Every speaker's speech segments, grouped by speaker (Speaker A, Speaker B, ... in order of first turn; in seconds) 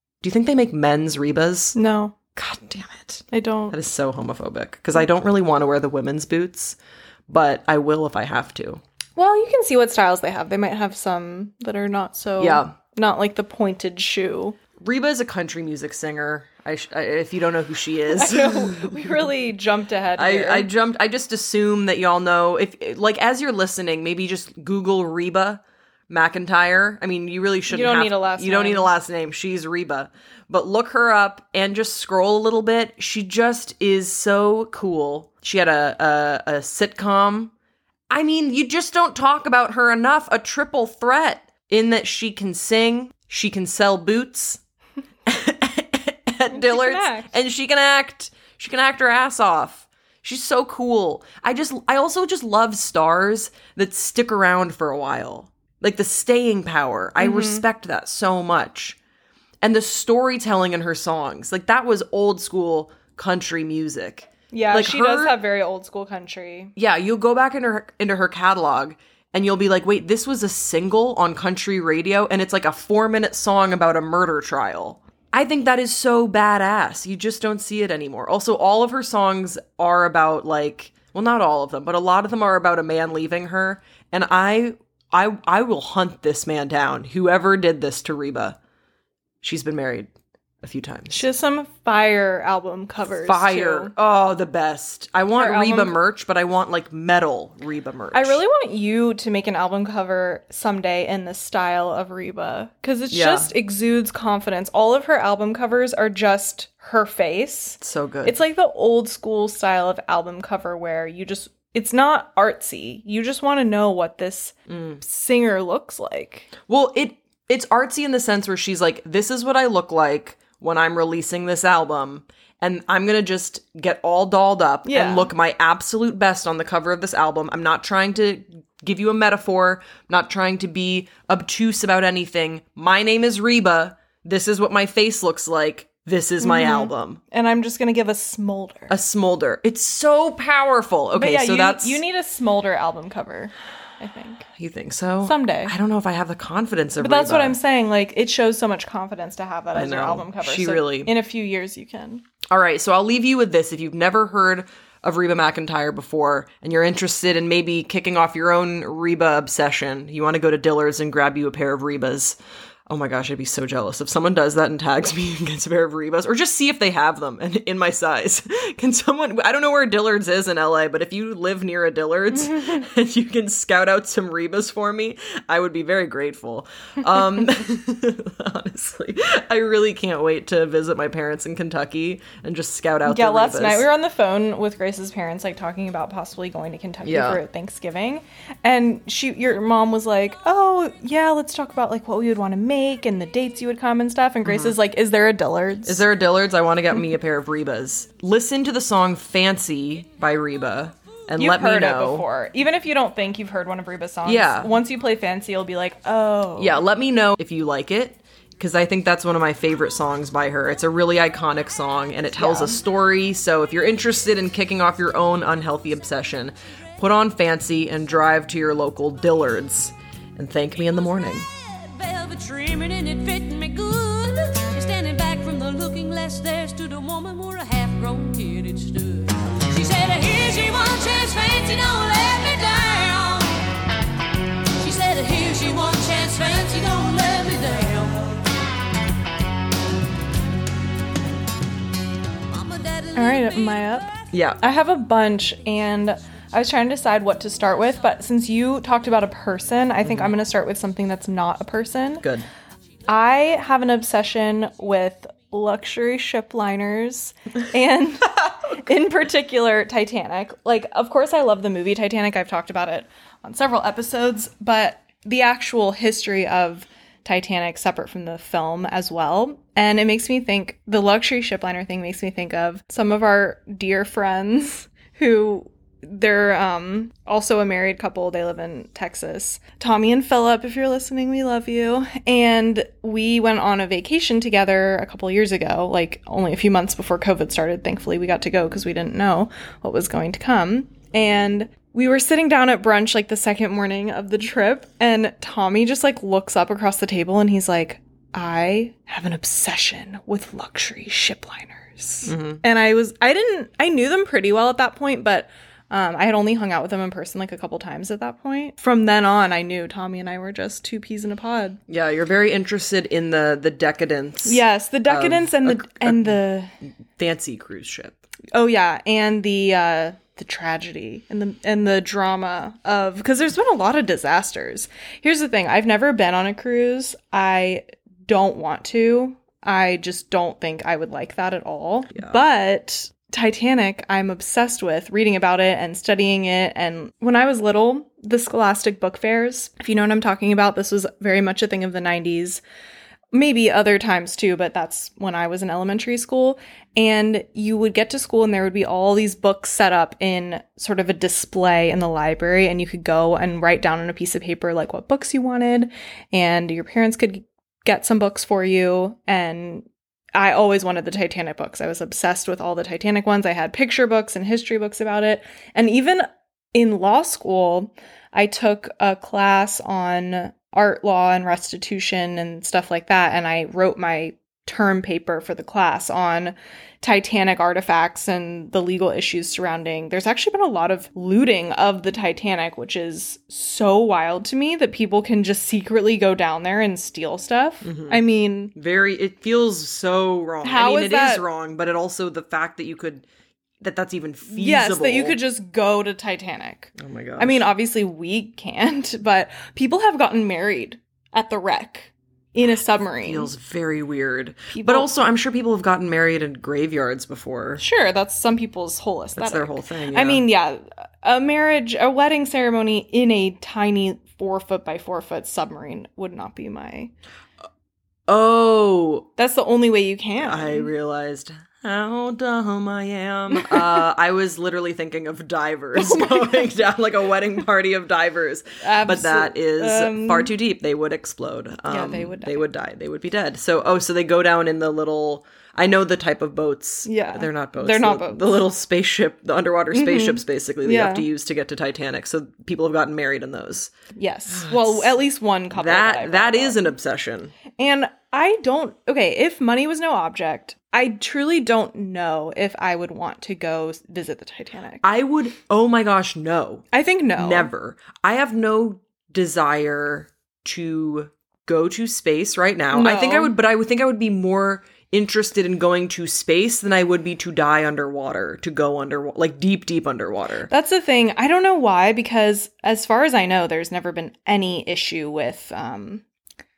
Speaker A: 0.2-1.8, 2.4-6.8, 7.3-8.8, 12.4-12.8, 14.8-19.2, 20.2-37.5, 38.1-44.6, 45.3-59.0, 59.6-65.4, 66.8-88.6, 89.4-90.1, 90.6-91.2, 93.2-98.4, 103.1-103.5, 107.8-108.4, 114.7-115.0, 116.7-137.2, 138.9-142.0, 144.6-147.6, 149.8-151.1, 152.5-162.4, 162.9-183.9, 187.1-187.4, 194.4-194.8, 195.8-202.3, 204.2-204.7, 206.6-221.5, 244.3-244.6, 250.0-250.3, 252.2-252.5, 302.2-302.6, 311.9-316.4, 317.2-318.2, 332.1-332.4, 387.8-388.2, 388.7-393.2, 393.8-395.4, 397.0-397.7, 403.2-407.8, 409.4-410.4, 418.3-419.3, 420.4-443.9, 444.5-445.1, 445.7-447.5, 455.0-470.7
Speaker B: 1.8-2.2, 3.3-3.8, 9.2-14.6, 18.1-20.7, 27.7-28.9, 46.5-47.3, 57.2-57.6, 64.5-66.7, 91.1-93.9, 95.4-96.0, 98.1-116.5, 124.8-125.3, 136.4-138.9, 141.1-144.5, 145.2-145.7, 147.0-152.2, 183.1-196.1, 201.4-206.8, 212.4-212.8, 243.2-244.1, 244.6-252.3, 253.1-311.8, 314.4-316.7, 318.5-342.6, 343.3-388.7, 390.6-391.4, 394.5-403.5, 404.7-405.1, 407.8-417.1, 419.4-420.9, 423.6-423.9, 425.9-426.7, 428.8-430.5, 431.9-432.6, 437.1-438.6, 439.9-441.3, 444.1-446.8, 447.8-455.0, 456.9-457.7, 462.9-463.5, 470.7-476.2
Speaker C: 221.5-233.6, 234.8-238.4, 242.5-244.2